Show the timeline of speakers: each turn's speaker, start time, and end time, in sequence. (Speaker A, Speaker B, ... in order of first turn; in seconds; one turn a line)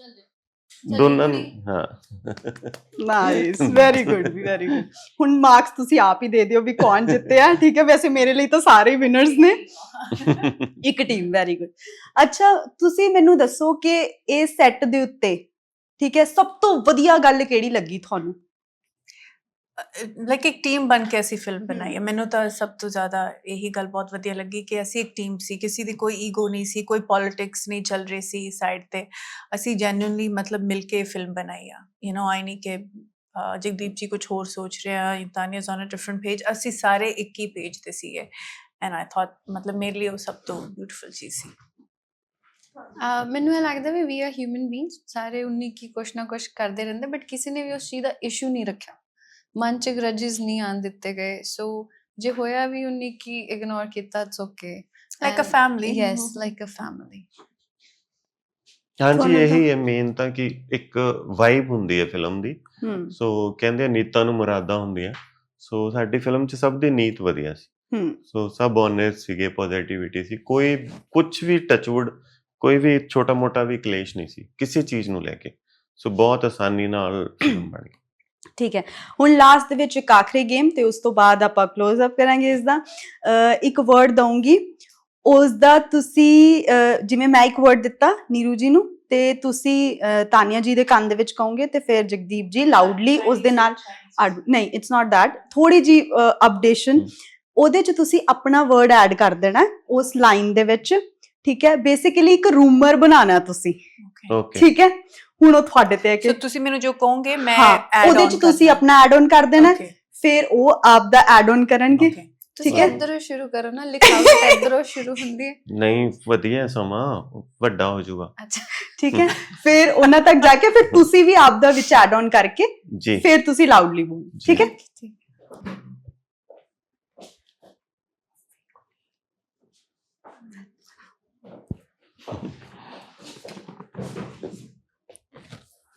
Speaker A: 0.8-4.8
Speaker B: 0.9-1.5
Speaker C: 3.0-9.6
Speaker A: 10.3-10.6
Speaker C: 10.8-15.4
Speaker C: 16.0-18.4
Speaker D: 19.8-41.5
Speaker B: 43.0-49.0
Speaker B: 49.6-57.3
Speaker D: 55.2-56.4
Speaker A: 59.0-67.7
Speaker C: 59.2-59.6
Speaker C: 62.8-63.1
Speaker C: 67.9-68.2
Speaker A: 68.3-78.0
Speaker C: 78.6-84.7
Speaker C: 85.2-103.8
Speaker D: 92.7-94.4
Speaker D: 104.0-104.3
Speaker A: 104.3-104.7
Speaker C: 104.5-106.4
Speaker D: 106.2-108.8
Speaker C: 107.5-112.2
Speaker D: 109.6-109.9
Speaker D: 112.0-112.3
Speaker B: 112.6-115.6
Speaker C: 112.7-113.0
Speaker A: 112.7-113.0
Speaker C: 114.1-114.7
Speaker A: 115.7-118.3
Speaker B: 118.4-118.9
Speaker C: 119.0-124.7
Speaker A: 119.1-119.4
Speaker A: 122.9-123.2
Speaker A: 124.4-124.7
Speaker B: 124.5-125.1